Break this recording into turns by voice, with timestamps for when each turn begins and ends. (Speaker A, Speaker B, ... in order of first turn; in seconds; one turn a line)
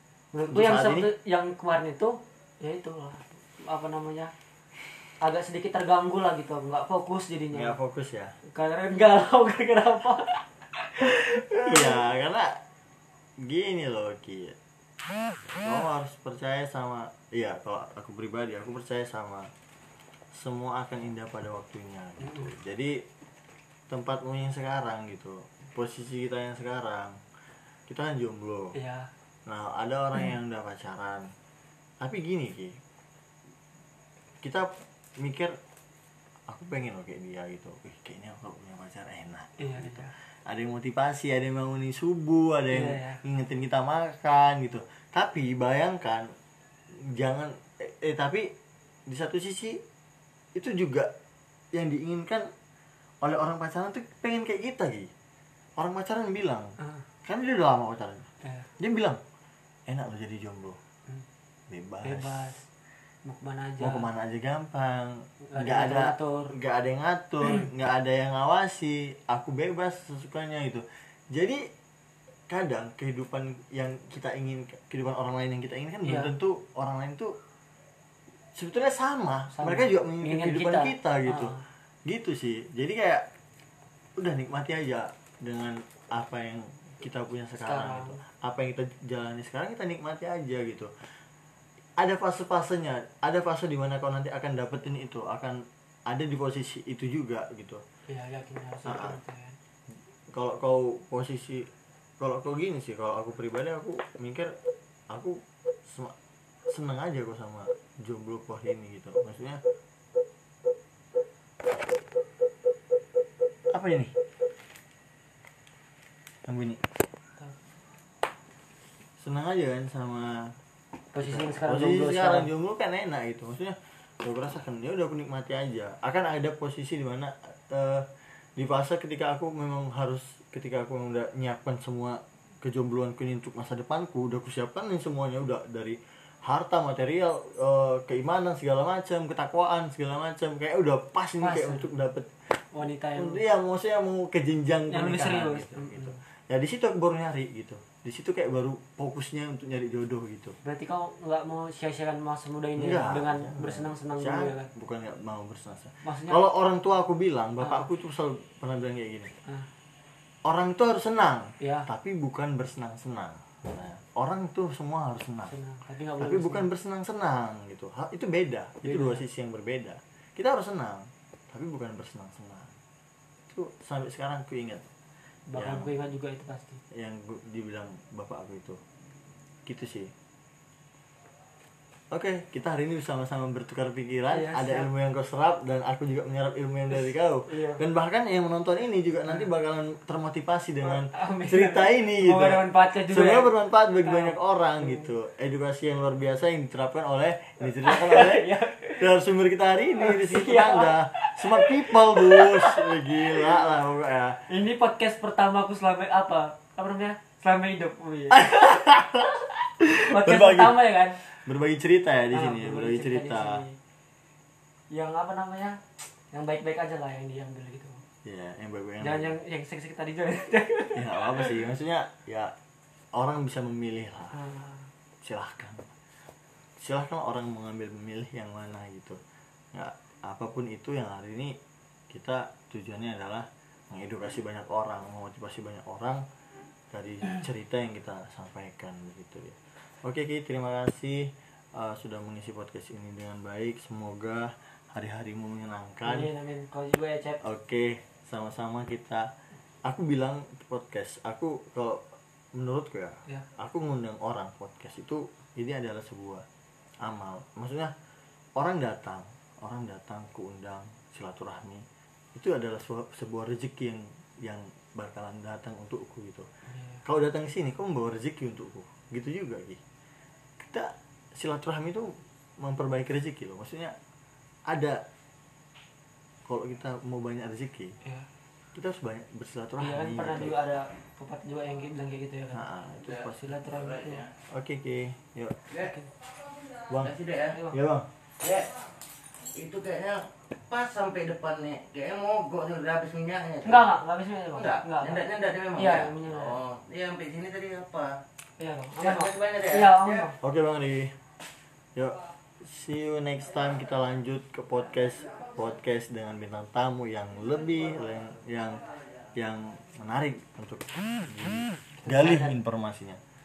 Speaker A: 0.3-4.3
Speaker B: 0.5-1.1
Speaker A: 5.2-7.8
Speaker B: 7.5-8.3
Speaker A: 8.5-12.0
Speaker B: 11.0-12.6
Speaker B: 13.4-14.6
Speaker B: 15.6-19.5
Speaker B: 20.3-23.1
Speaker B: 23.9-27.2
Speaker B: 27.9-28.8
Speaker A: 28.7-29.1
Speaker B: 29.5-31.3
Speaker B: 32.0-32.8
Speaker B: 34.4-35.6
Speaker B: 36.5-46.3
Speaker A: 39.6-40.1
Speaker A: 42.7-43.2
Speaker B: 46.9-48.5
Speaker B: 49.1-49.8
Speaker B: 50.5-51.1
Speaker B: 51.7-52.5
Speaker B: 53.2-55.1
Speaker B: 55.8-59.2
Speaker B: 59.9-60.8
Speaker B: 61.7-62.5
Speaker A: 62.0-62.7
Speaker A: 63.2-64.1
Speaker B: 63.8-71.7
Speaker A: 65.5-66.5
Speaker B: 72.5-77.3
Speaker A: 76.0-76.3
Speaker B: 78.5-81.5
Speaker A: 79.5-81.6
Speaker B: 82.1-83.3
Speaker B: 84.2-90.9
Speaker A: 87.6-88.2
Speaker B: 92.0-97.8
Speaker A: 98.1-99.6
Speaker B: 98.9-99.2
Speaker B: 100.3-101.7
Speaker B: 102.2-104.5
Speaker B: 105.1-106.2
Speaker B: 106.7-109.6
Speaker B: 113.7-114.1
Speaker B: 116.5-116.8
Speaker B: 119.2-120.5
Speaker A: 121.1-122.5
Speaker B: 121.2-142.6
Speaker A: 141.4-141.9
Speaker A: 142.7-143.4
Speaker B: 143.2-150.6
Speaker A: 144.9-146.2
Speaker A: 150.6-154.7
Speaker B: 152.8-159.3
Speaker A: 156.0-156.4
Speaker A: 157.6-157.9
Speaker B: 160.4-165.5
Speaker A: 161.6-161.9
Speaker A: 165.5-166.7
Speaker B: 166.2-172.8
Speaker A: 168.8-169.2
Speaker B: 173.5-174.9
Speaker A: 175.5-176.8
Speaker B: 175.6-175.9
Speaker B: 176.9-178.8
Speaker B: 179.7-180.1
Speaker B: 182.1-204.4
Speaker A: 184.3-184.9
Speaker A: 187.5-187.8
Speaker A: 190.8-193.5
Speaker A: 194.1-195.1
Speaker A: 197.8-199.1
Speaker A: 200.0-203.5
Speaker A: 204.5-208.8
Speaker B: 208.3-210.8
Speaker A: 209.8-211.2
Speaker B: 211.4-213.6
Speaker A: 212.3-213.8
Speaker A: 214.9-215.8
Speaker A: 216.3-218.0
Speaker B: 218.2-219.3
Speaker A: 219.0-221.6
Speaker B: 220.9-222.5
Speaker B: 223.1-224.4
Speaker A: 224.3-224.9
Speaker B: 225.2-225.9
Speaker B: 226.8-229.2
Speaker B: 229.7-231.6
Speaker B: 232.1-236.2
Speaker B: 236.9-246.3
Speaker A: 246.1-247.4
Speaker B: 247.4-249.3
Speaker B: 249.8-256.4
Speaker B: 257.0-257.9
Speaker B: 258.6-266.5
Speaker A: 266.7-267.0
Speaker B: 267.1-269.8
Speaker B: 270.6-274.0
Speaker B: 274.7-275.0
Speaker B: 276.4-278.0
Speaker B: 278.7-280.6
Speaker A: 279.8-284.3
Speaker B: 282.5-283.4
Speaker C: 283.7-284.3
Speaker B: 284.5-285.6
Speaker A: 285.8-286.1
Speaker C: 286.7-287.6
Speaker B: 286.9-287.1
Speaker B: 287.7-288.1
Speaker C: 288.4-288.8
Speaker C: 289.4-293.9
Speaker A: 293.6-295.2
Speaker C: 294.5-298.2
Speaker A: 295.7-296.6
Speaker A: 298.6-300.4
Speaker C: 299.0-300.3
Speaker B: 300.4-301.2
Speaker B: 301.9-308.8
Speaker B: 309.4-313.2
Speaker A: 312.0-312.6